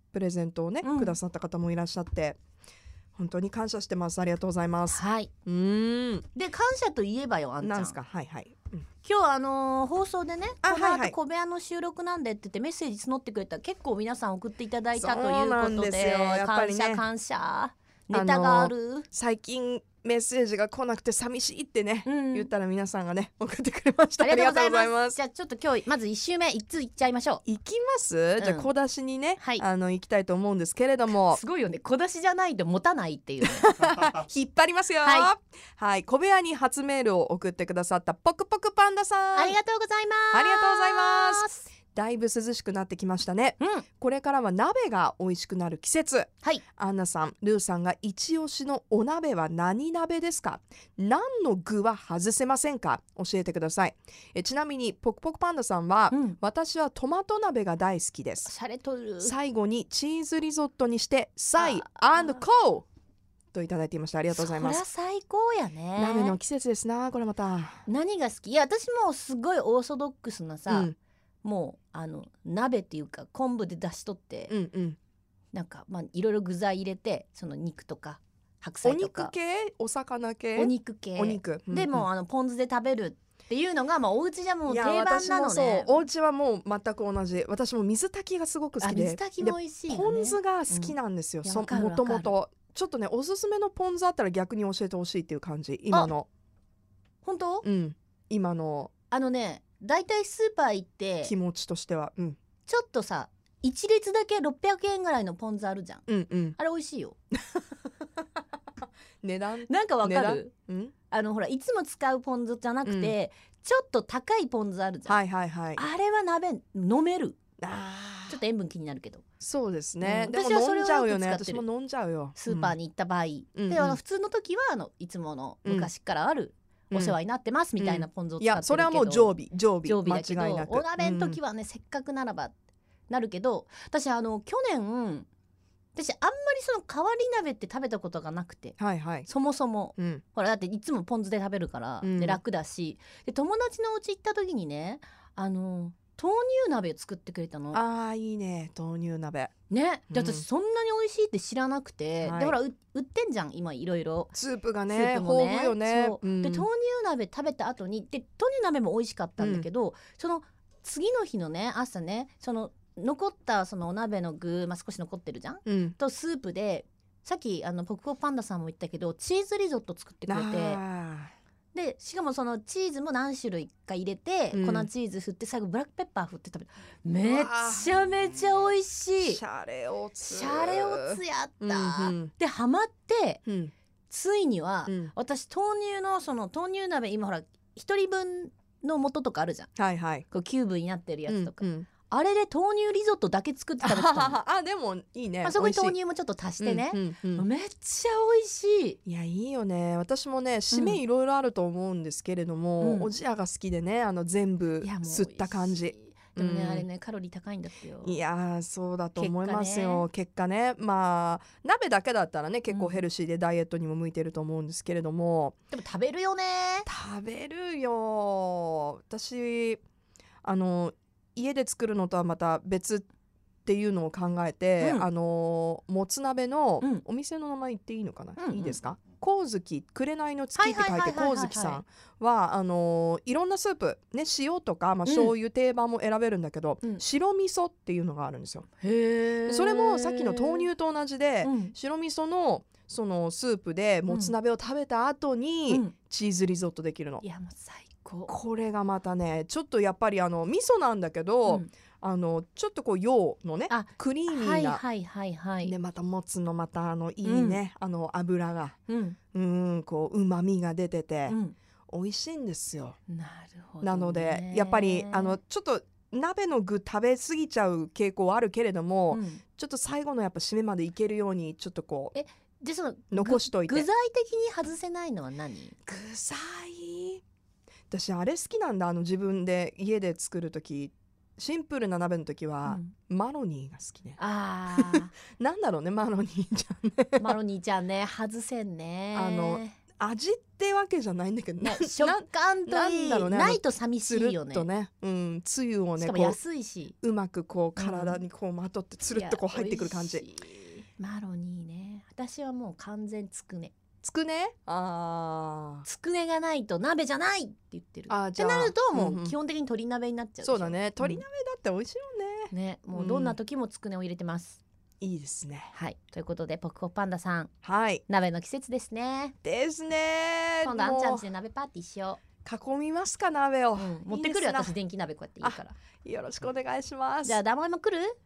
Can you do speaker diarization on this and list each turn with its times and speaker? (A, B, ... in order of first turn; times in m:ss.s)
0:00.1-0:02.4 A
0:00.8-0:01.2 B
0:03.2-0:06.3 A
0:04.9-0:05.3 B
0:06.3-0:08.0 B
0:07.6-0:08.8 A
0:09.0-0:19.1 B
0:10.6-0:11.1 A
0:15.0-0:17.0 A
0:18.1-0:25.2 A
0:22.0-0:22.5 B
0:24.2-0:27.4 B
0:27.4-0:31.4 A
0:28.4-0:28.7 B
0:29.4-0:29.6 B
0:31.1-0:33.7 B
0:33.4-0:39.6 A
0:35.0-0:35.3 B
0:39.3-0:41.7 B
0:40.3-0:58.5 A
0:43.6-0:43.8 B
0:56.1-0:56.4 B
0:58.4-0:59.3 B
0:59.2-1:02.8 A
1:01.6-1:02.4 B
1:03.5-1:04.8 A
1:04.3-1:06.4 B
1:06.0-1:07.8 A
1:07.9-1:10.9 B
1:10.7-1:11.0 A
1:11.4-1:14.5 B
1:14.5-1:15.0 A
1:15.5-1:19.3 B
1:18.8-1:22.1 A
1:20.6-1:26.0 B
1:24.7-1:36.3 A
1:28.8-1:32.3 B
1:37.2-1:37.6 B
1:37.6-1:38.9 A
1:39.1-1:41.3 B
1:41.2-1:42.4 A
1:42.7-1:46.0 B
1:46.1-1:46.6 A
1:46.6-1:47.1 B
1:47.4-1:47.6 A
1:49.2-1:50.9 A
1:49.7-1:50.5 B
1:51.1-1:55.2 B
1:52.8-1:53.1 A
1:55.0-1:55.8 A
1:55.8-1:57.4 B
1:57.6-1:58.4 A
1:58.3-1:59.2 B
1:59.4-2:02.8 A
2:00.0-2:01.6 B
2:02.4-2:12.5 B
2:03.5-2:04.0 A
2:05.6-2:05.9 A
2:06.9-2:07.2 A
2:07.8-2:11.4 A
2:13.1-2:15.3 B
2:15.9-2:27.8 B
2:18.8-2:19.3 A
2:22.0-2:22.4 A
2:27.7-2:29.5 A
2:29.7-2:34.3 B
2:30.1-2:30.4 A
2:32.2-2:32.6 A
2:34.3-2:36.7 A
2:34.9-2:50.8 B
2:39.4-2:39.7 A
2:45.6-2:46.0 A
2:50.3-2:51.3 A
2:51.7-2:59.4 B
2:54.5-2:54.9 A
2:57.2-2:58.0 A
2:59.2-3:02.3 A
3:00.2-3:03.4 B
3:03.4-3:03.7 A
3:04.1-3:09.7 B
3:04.9-3:05.1 A
3:09.8-3:10.2 A
3:10.3-3:14.4 B
3:11.3-3:11.9 A
3:13.8-3:16.0 A
3:15.4-3:19.0 B
3:16.6-3:17.5 A
3:19.0-3:26.9 A
3:20.7-3:21.0 B
3:22.8-3:23.1 B
3:24.8-3:28.2 B
3:28.0-3:35.6 A
3:29.2-3:30.0 B
3:32.7-3:33.0 B
3:35.7-3:36.9 B
3:36.8-3:39.8 A
3:40.4-3:43.1 A
3:43.6-3:58.6 A
3:44.8-3:45.0 B
3:48.4-3:48.8 B
3:50.6-3:51.8 B
3:55.0-3:55.3 B
3:58.8-4:00.7 B
3:59.5-4:07.2 A
4:01.4-4:01.7 B
4:04.1-4:04.3 B
4:05.7-4:05.9 B
4:07.2-4:08.3 B
4:08.3-4:14.8 A
4:13.7-4:15.7 B
4:15.6-4:18.8 A
4:17.2-4:17.6 B
4:18.9-4:19.2 B
4:19.3-4:21.4 A
4:21.3-4:21.6 B
4:21.9-4:23.0 A
4:23.1-4:25.4 B
4:23.8-4:32.1 A
4:29.1-4:29.4 B
4:32.1-4:35.8 B
4:33.1-4:33.9 A
4:35.9-4:37.2 A
4:37.9-4:44.2 A
4:42.7-4:42.9 B
4:44.2-4:45.1 B
4:44.7-4:47.4 A
4:47.2-4:49.8 B
4:49.1-4:56.4 A
4:51.6-4:54.7 B
4:56.0-4:56.9 B
4:57.0-5:00.2 A
4:57.8-4:58.2 B
4:59.1-5:03.7 B
5:04.0-5:05.8 A
5:05.8-5:11.2 B
5:08.1-5:09.3 A
5:10.4-5:13.4 A
5:12.5-5:14.6 B
5:15.0-5:15.7 A
5:15.7-5:17.5 B
5:17.6-5:18.0 A
5:18.1-5:19.3 B
5:19.4-5:21.3 A
5:20.6-5:22.2 B
5:22.4-5:24.8 A
5:23.8-5:25.7 B
5:25.4-5:27.4 A
5:27.2-5:28.2 B